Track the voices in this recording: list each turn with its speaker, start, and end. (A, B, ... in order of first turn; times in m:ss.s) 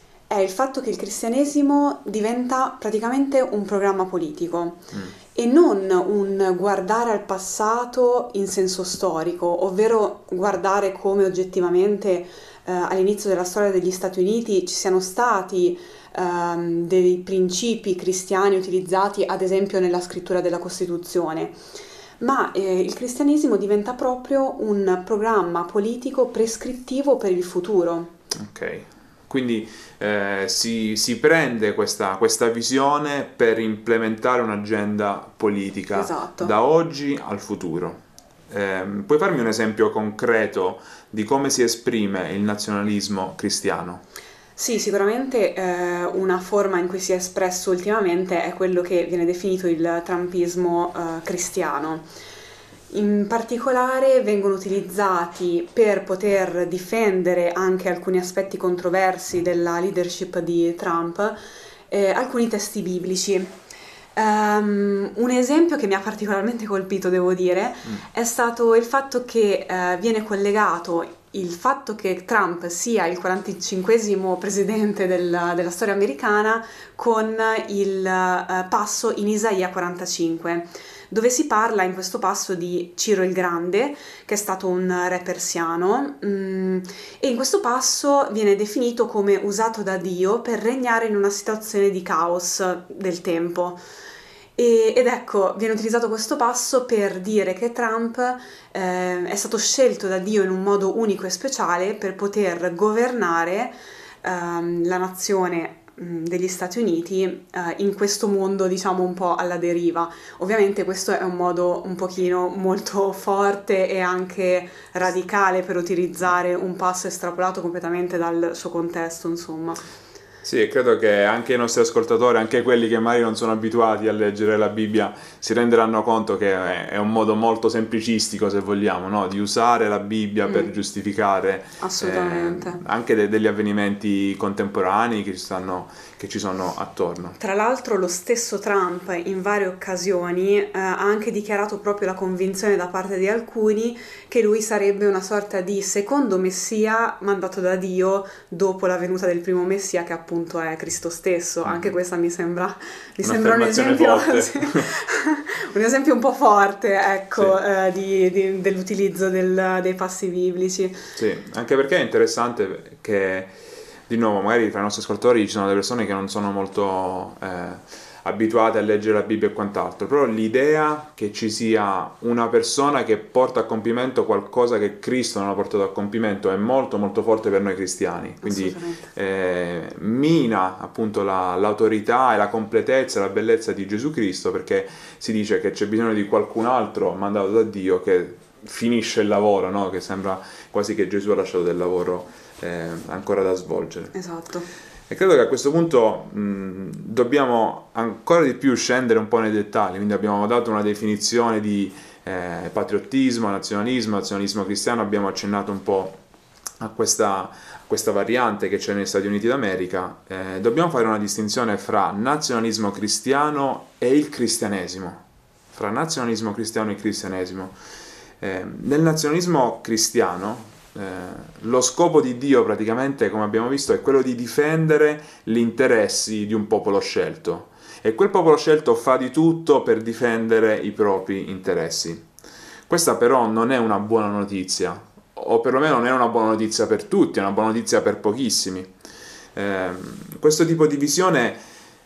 0:00.3-0:21.6 A
0:22.2-0:28.1 A
0:28.4-0:38.0 B
0:35.9-0:36.5 A
0:38.5-0:44.0 B
0:44.6-0:52.1 A
0:52.9-1:01.4 A
1:01.9-1:03.6 A
1:04.2-1:33.8 A
1:34.6-1:59.8 A
2:00.4-2:17.4 B
2:10.4-2:10.7 A
2:11.8-2:12.8 A
2:17.4-2:41.0 A
2:31.6-2:31.9 B
2:33.2-2:34.9 B
2:41.2-2:43.5 B
2:44.1-3:14.1 B
2:58.4-2:59.1 A
3:14.1-3:14.7 A
3:15.1-3:26.2 B
3:26.8-3:35.2 B
3:35.7-3:37.8 B
3:38.4-3:52.3 B
3:52.9-3:58.9 B
3:59.6-4:01.6 B